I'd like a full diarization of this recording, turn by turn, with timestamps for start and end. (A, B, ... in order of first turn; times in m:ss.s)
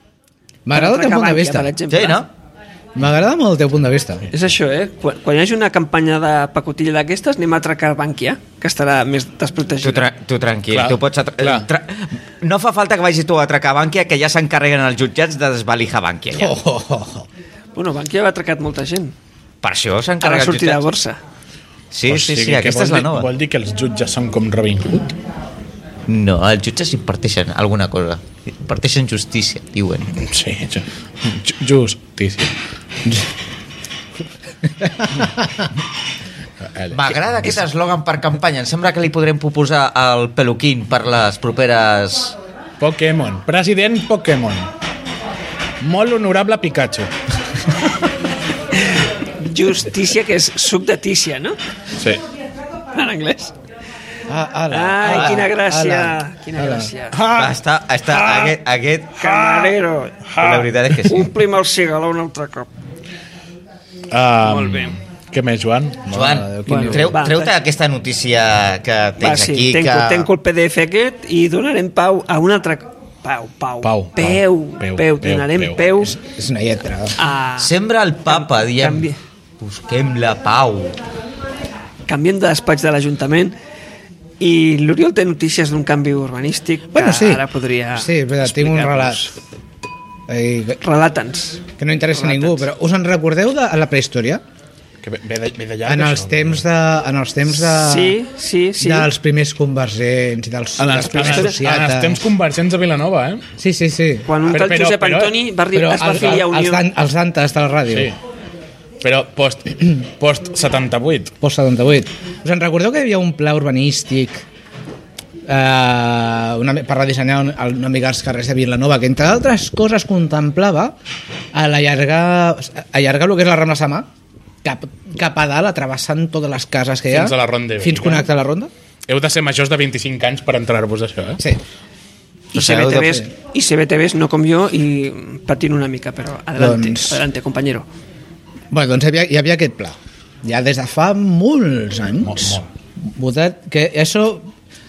0:00.6-0:01.7 A
0:00.7-0:02.2 B
0:01.9-0:02.3 C
0:03.0-0:04.3 A
0:04.3-0:10.1 B
0:09.8-0:16.6 C
0:10.7-0:11.7 D
0:16.3-0:17.3 A
0:17.7-0:19.1 B
0:19.6-0:20.8 C
0:20.2-0:21.2 B
0:21.9-0:23.3 C
0:22.1-0:25.2 D
0:26.1-0:30.2 C
0:30.1-0:32.5 D
0:34.8-0:35.6 A
0:36.6-0:37.6 D
0:36.9-0:42.4 C
0:42.8-0:44.7 D
0:45.8-0:47.1 D
0:49.4-0:51.6 B
0:52.0-0:52.2 D
0:52.9-0:53.5 B
0:54.3-0:56.9 A
0:54.7-0:57.2 B
0:55.0-0:55.4 C
0:57.1-0:58.5 D
0:57.3-0:59.2 C
0:59.2-1:00.3 B
0:59.2-0:59.7 D
1:00.2-1:01.1 D
1:00.4-1:01.3 C
1:01.1-1:02.7 B
1:04.1-1:06.1 D
1:04.4-1:05.0 B
1:06.1-1:07.2 A
1:06.1-1:10.3 C
1:06.6-1:07.5 B
1:09.2-1:16.2 B
1:13.8-1:15.9 D
1:16.0-1:17.2 A
1:17.2-1:17.7 B
1:17.6-1:19.1 C
1:18.3-1:19.2 B
1:19.6-1:21.0 C
1:22.1-1:23.6 B
1:24.4-1:29.3 B
1:26.9-1:29.2 A
1:30.3-1:30.8 A
1:30.8-1:32.6 B
1:31.8-1:34.4 A
1:35.0-1:36.6 D
1:35.8-1:38.2 A
1:37.6-1:39.1 B
1:38.8-1:42.2 A
1:40.8-1:43.5 D
1:41.0-1:41.6 B
1:43.6-1:44.4 A
1:44.2-1:46.8 B
1:44.5-1:45.4 D
1:45.7-1:48.1 A
1:47.9-1:48.2 D
1:49.0-1:51.3 D
1:51.4-1:54.4 A
1:55.5-2:00.9 A
2:01.5-2:04.1 A
2:04.6-2:08.7 A
2:07.1-2:08.3 D
2:09.1-2:11.4 D
2:12.5-2:17.8 B
2:12.6-2:13.1 C
2:12.8-2:13.2 A
2:16.6-2:17.2 A
2:18.7-2:24.5 A
2:22.2-2:22.7 D